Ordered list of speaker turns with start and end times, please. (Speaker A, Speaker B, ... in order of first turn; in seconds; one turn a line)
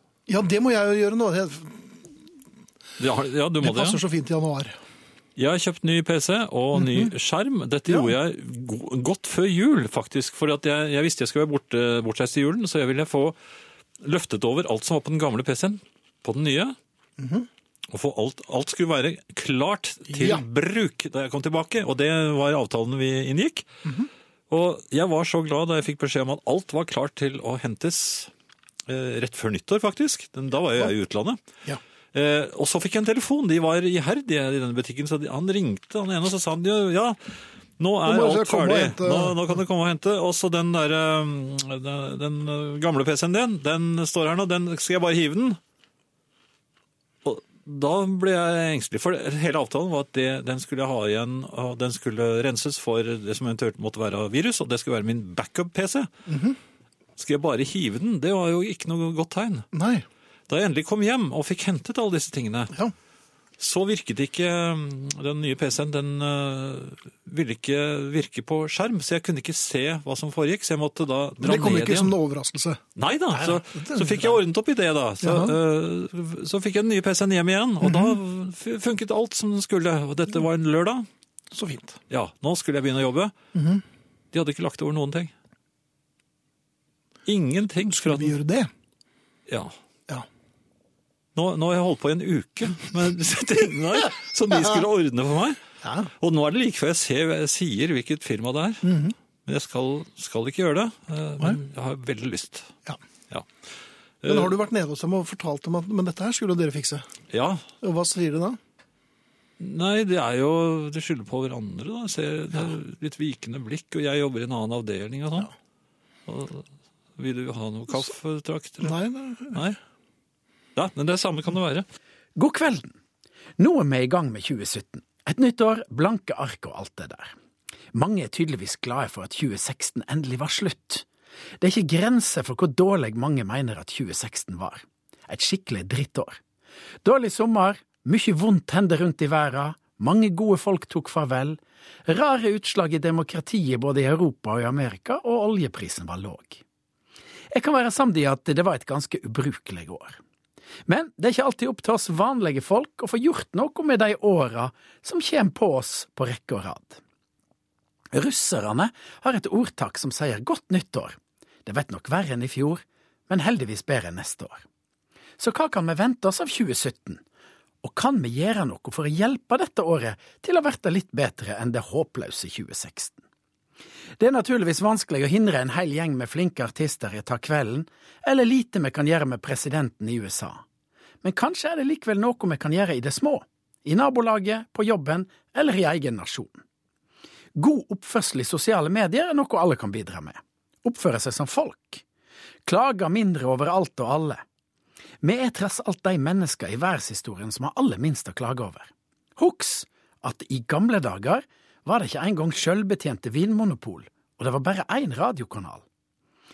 Speaker A: 0.3-2.1
Speaker B: 3.0-4.0
Speaker A: 3.6-4.8
Speaker B: 5.3-13.4
Speaker B: 14.0-16.8
Speaker A: 17.2-17.5
Speaker B: 17.9-23.7
Speaker A: 20.1-20.4
Speaker B: 24.5-28.3
Speaker B: 28.9-31.4
Speaker B: 32.1-45.6
Speaker A: 38.0-39.5
Speaker B: 47.2-56.1
Speaker A: 56.3-56.6
Speaker B: 57.2-59.7
Speaker A: 59.7-60.0
Speaker B: 60.5-62.7
Speaker B: 63.6-72.1
Speaker A: 71.4-72.8
Speaker B: 73.0-81.1
Speaker A: 73.3-74.4
Speaker A: 75.2-75.5
Speaker A: 77.8-78.2
Speaker A: 81.5-82.0
Speaker B: 82.1-83.3
Speaker A: 83.5-83.8
Speaker B: 84.3-85.3
Speaker B: 87.2-88.3
Speaker A: 87.9-88.7
Speaker B: 89.5-89.7
Speaker B: 91.3-95.6
Speaker A: 95.8-96.1
Speaker B: 96.1-98.9
Speaker A: 98.8-99.1
Speaker B: 99.5-102.7
Speaker B: 104.2-104.5
Speaker A: 104.2-107.1
Speaker B: 107.3-107.6
Speaker A: 107.8-108.6
Speaker B: 109.6-115.5
Speaker B: 116.3-116.7
Speaker B: 117.2-119.0
Speaker A: 118.8-119.7
Speaker B: 119.5-119.8
Speaker B: 120.8-121.8
Speaker C: 122.3-123.0
Speaker C: 123.6-127.3
Speaker C: 127.9-131.1
Speaker C: 131.6-136.4
Speaker C: 137.0-146.6
Speaker C: 147.5-150.2
Speaker C: 150.9-157.0
Speaker C: 158.1-164.6
Speaker C: 165.4-167.2
Speaker C: 167.8-173.2
Speaker C: 174.2-180.6
Speaker C: 181.2-186.6
Speaker C: 187.6-192.0
Speaker C: 192.7-194.4
Speaker C: 195.2-205.8